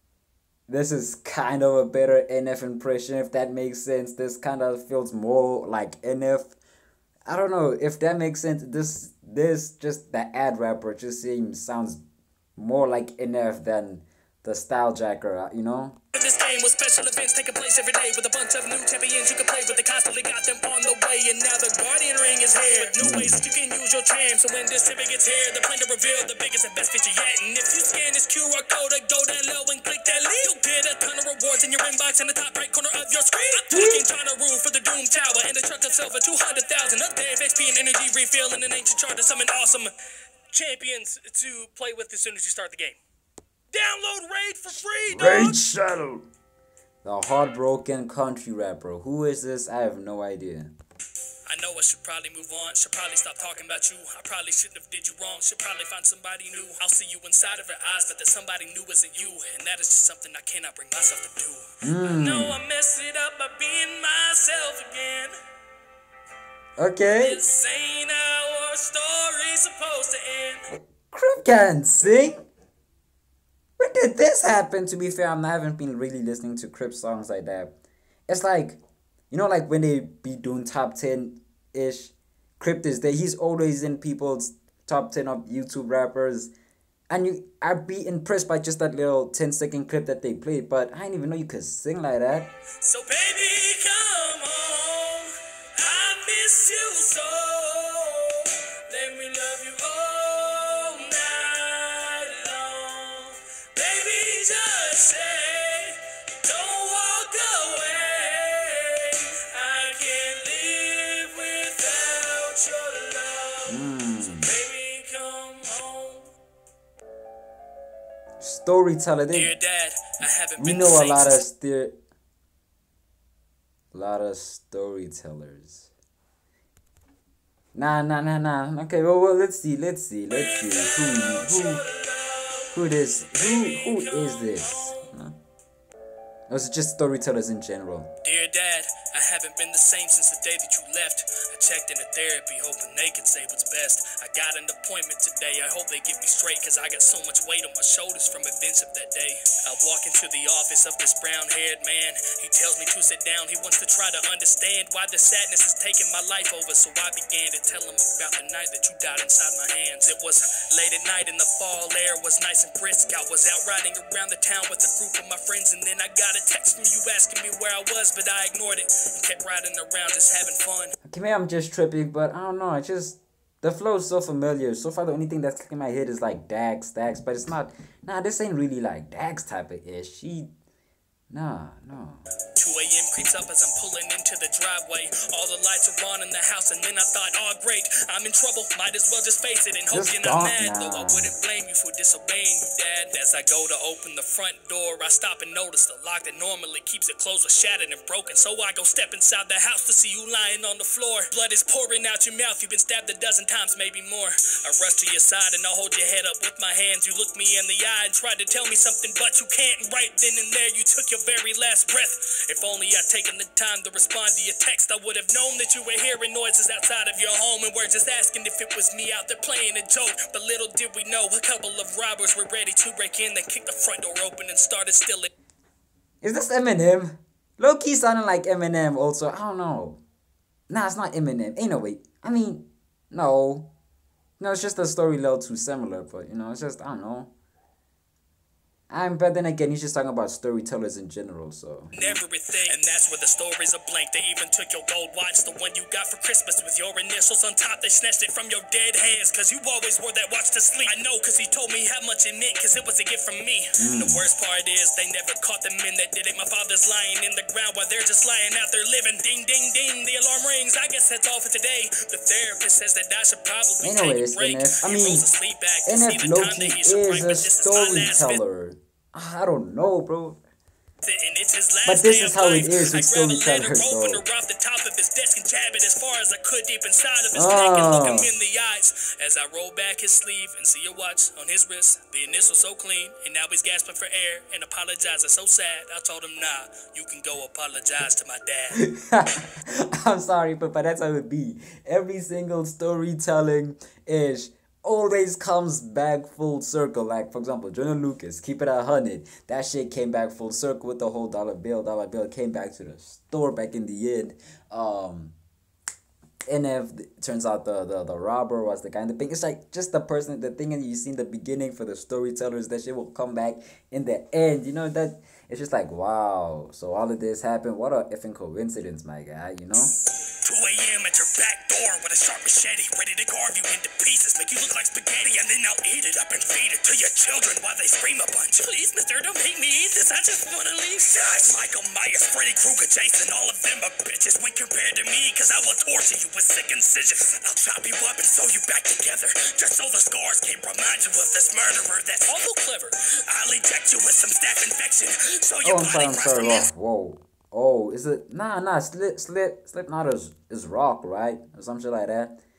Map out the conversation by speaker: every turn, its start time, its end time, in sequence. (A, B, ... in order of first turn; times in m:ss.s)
0:00.7-0:06.6 A
0:07.3-0:12.0 A
0:12.6-0:16.0 A
0:16.1-0:39.9 B
0:23.0-0:23.5 A
0:33.7-0:34.0 A
0:40.5-0:43.0 B
0:43.7-0:45.6 B
0:45.1-0:46.2 A
0:47.0-0:50.7 A
0:51.5-1:05.3 B
1:01.8-1:02.6 A
1:06.8-1:07.4 A
1:07.2-1:10.7 B
1:10.7-1:12.4 A
1:13.8-1:17.7 A
1:18.3-1:18.8 A
1:19.3-1:26.5 A
1:27.1-1:32.5 A
1:32.8-1:53.8 B
1:53.7-1:54.5 A
1:54.4-1:56.3 B
1:58.4-1:59.5 A
1:59.3-2:01.4 B
2:00.6-2:02.0 A
2:03.9-2:05.9 A
2:07.8-2:11.8 A
2:10.3-2:15.0 B
2:12.7-2:15.4 A
2:16.5-2:18.1 A
2:18.2-2:50.9 B
2:51.1-3:00.5 A
3:01.3-3:02.3 A
3:02.6-3:45.3 B
3:09.9-3:11.3 A
3:46.2-3:50.0 A
3:50.7-3:53.7 A
3:54.4-3:57.3 A
3:58.9-4:02.2 A
4:01.9-4:28.4 B
4:13.8-4:14.3 A
4:23.8-4:25.3 A
4:25.9-4:30.4 A
4:31.0-4:48.8 B
4:31.8-4:34.2 A
4:37.3-4:38.3 A
4:48.8-5:05.4 A
5:06.5-5:20.0 A
5:20.4-5:46.7 B
5:45.6-5:52.4 A